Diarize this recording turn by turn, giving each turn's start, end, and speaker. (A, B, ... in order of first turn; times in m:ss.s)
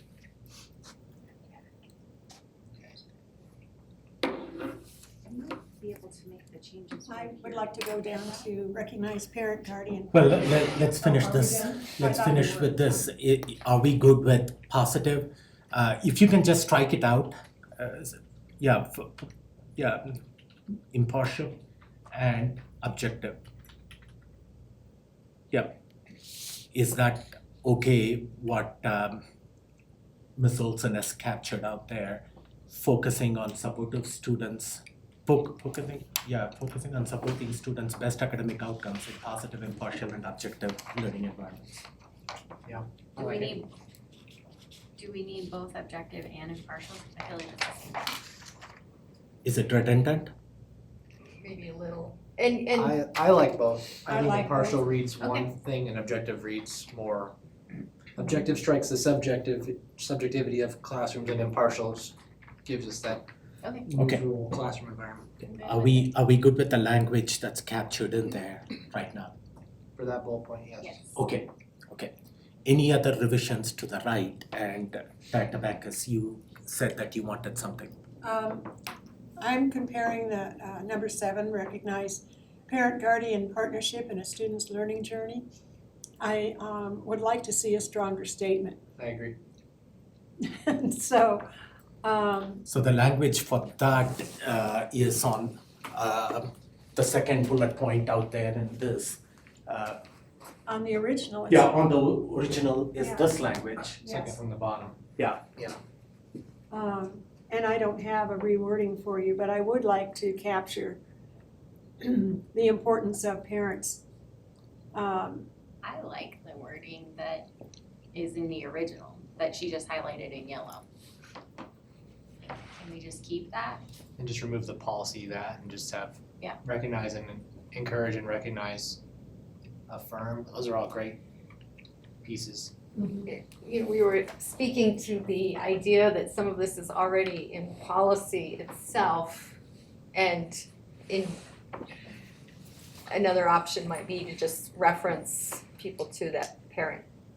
0:05.3-0:07.6 A
0:07.0-0:13.0 B
0:10.1-0:20.2 C
0:20.9-0:21.6 C
0:22.1-0:23.4 C
0:25.5-0:25.8 C
0:26.7-0:29.2 C
0:30.4-0:41.8 C
0:42.6-0:43.6 D
0:43.2-0:43.7 A
0:45.0-0:48.1 A
0:49.4-0:50.3 C
0:51.4-0:53.0 E
0:52.7-0:57.3 D
0:54.0-0:54.9 B
0:55.2-0:55.5 A
0:58.2-1:03.2 D
1:03.6-1:03.9 A
1:03.8-1:05.3 D
1:05.4-1:06.1 A
1:05.6-1:09.3 C
1:10.0-1:10.9 D
1:10.8-1:11.2 A
1:11.1-1:12.1 C
1:12.6-1:17.9 C
1:18.2-1:18.7 B
1:19.4-1:25.4 B
1:26.2-1:28.8 B
1:29.0-1:29.4 D
1:30.4-1:31.5 B
1:32.0-1:32.6 B
1:32.6-1:40.0 C
1:40.6-1:41.7 B
1:41.5-1:44.0 C
1:43.0-1:43.3 B
1:44.0-1:45.0 D
1:44.0-1:44.4 B
1:45.2-1:45.4 C
1:46.7-1:51.0 B
1:52.0-1:54.0 B
1:54.9-1:55.5 B
1:55.8-1:57.5 A
1:58.1-2:00.8 A
2:02.4-2:03.8 A
2:04.2-2:09.0 D
2:09.9-2:11.2 D
2:12.2-2:12.7 D
2:13.0-2:13.3 B
2:13.2-2:19.6 E
2:20.1-2:21.4 E
2:23.1-2:27.0 E